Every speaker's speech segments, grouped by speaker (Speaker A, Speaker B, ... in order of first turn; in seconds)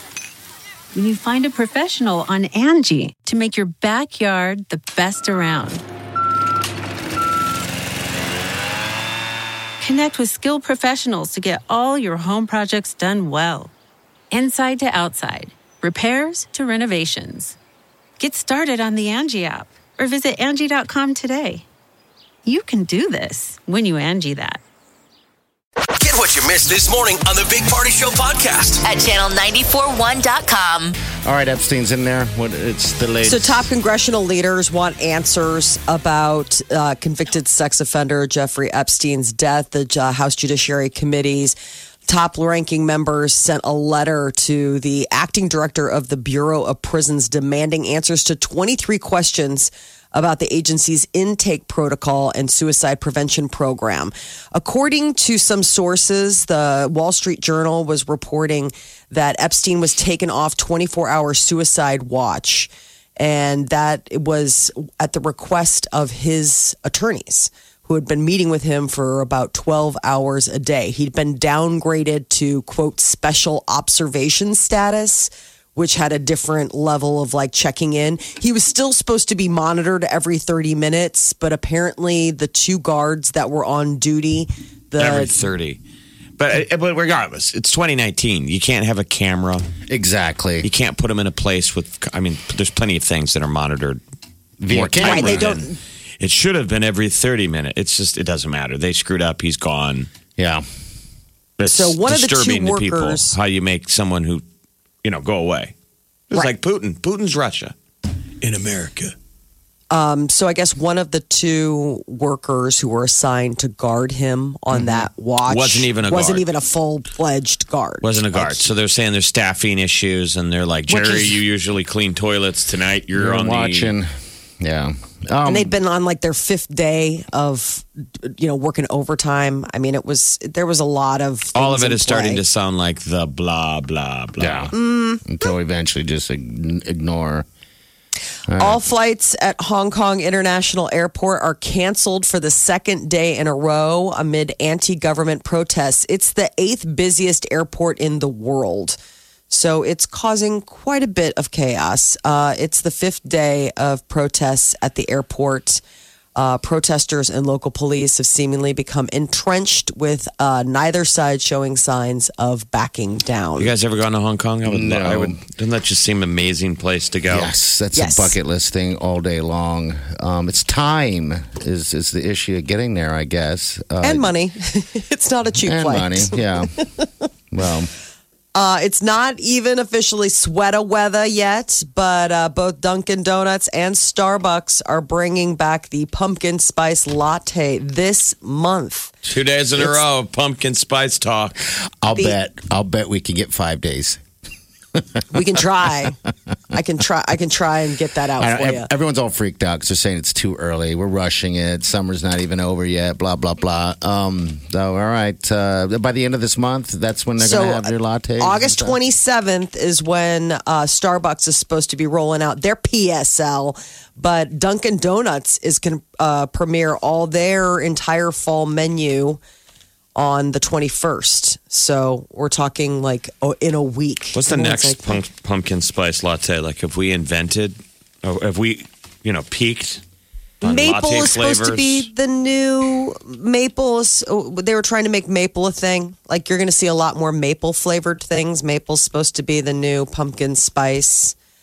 Speaker A: 0.9-5.8, 9.8-13.7, 14.3-17.6, 18.2-21.7, 22.4-24.6
Speaker B: 25.9-28.8
Speaker C: 28.9-30.9
Speaker D: 31.2-33.7, 89.9-90.7, 94.6-95.5, 100.4-100.6, 114.7-115.0, 118.3-118.6, 120.9-121.4, 123.1-125.7, 134.4-137.4, 138.5-138.8, 164.7-165.4, 167.3-174.3, 175.6-176.7, 177.5-177.9, 192.0-194.2, 194.9-195.6, 198.4-209.0
Speaker E: 33.2-85.3, 95.0-95.8, 101.7-103.4, 109.9-118.1, 125.5-132.4, 134.7-135.2, 138.6-149.0, 149.5-155.8, 156.3-163.7, 167.9-168.3, 174.0-177.1, 178.5-189.1, 195.3-196.2, 196.7-198.9, 207.4-219.4, 220.2-225.2, 230.6-241.3
Speaker F: 85.0-85.8, 86.4-89.7, 90.6-94.0, 94.7-95.7, 96.2-100.1, 101.6-104.4, 105.0-105.7, 106.3-107.7, 108.4-109.1, 115.5-116.5, 118.0-123.9, 131.5-134.7, 163.6-167.5, 189.3-191.6, 224.3-230.0, 230.6-232.1